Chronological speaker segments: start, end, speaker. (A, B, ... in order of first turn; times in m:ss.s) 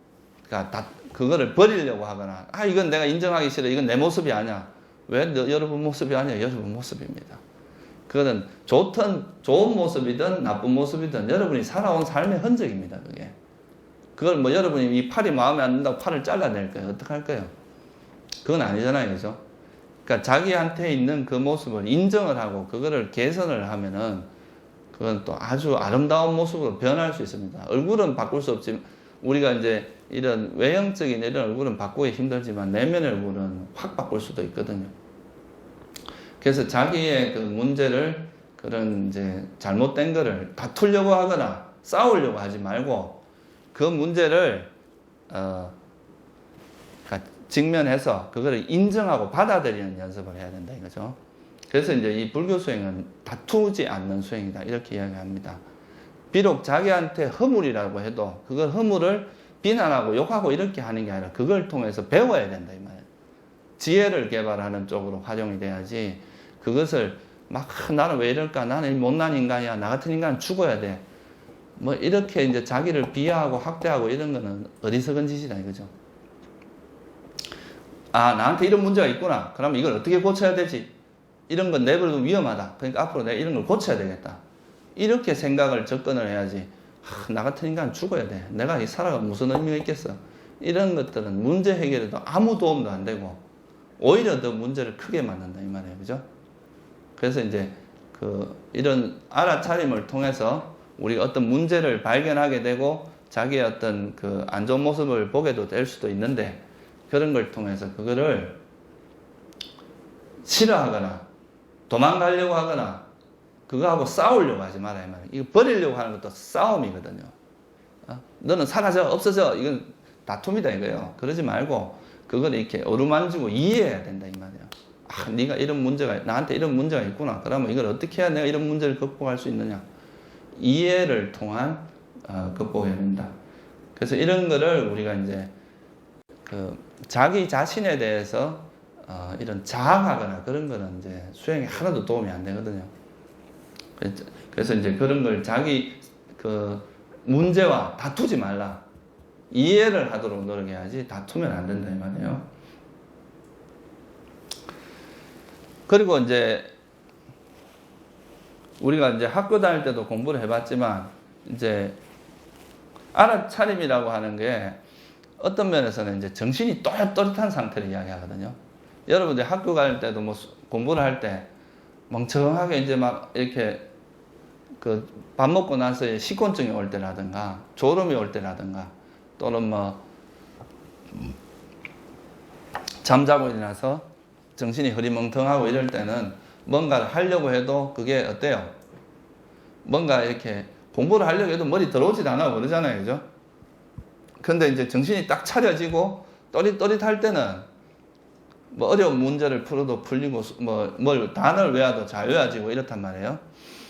0:00.5-0:07.4 A
0:08.1-0:13.4 A
0:14.2-0:17.5 A
0:18.4-0:19.4 A
0:20.0-0:24.3 A
0:24.9-0:34.9 A
0:36.4-0:43.2 A
0:43.7-0:44.7 A
0:45.3-0:45.8 A
0:47.1-0:51.2 A
0:51.7-0:55.6 A
0:56.3-1:03.0 A
1:03.8-1:11.0 A
1:11.8-1:15.9 A
1:18.1-1:20.9 A
1:21.5-1:24.4 A
1:25.0-1:33.4 A
1:34.0-1:36.2 A
1:37.2-1:48.6 A
1:50.4-1:51.3 A
1:51.9-1:53.1 A
1:53.7-1:57.3 A
1:58.0-2:09.9 A
2:10.6-2:13.3 A
2:14.0-2:15.5 A
2:16.5-2:22.9 A
2:24.0-2:28.8 A
2:29.5-2:32.5 A
2:35.9-2:36.7 A
2:38.8-2:42.0 A
2:43.1-2:44.8 A
2:45.4-2:51.5 A
2:52.1-2:53.9 A
2:54.8-3:00.0 A
3:03.0-3:08.7 A
3:09.8-3:13.2 A
3:14.4-3:17.7 A
3:18.7-3:23.4 A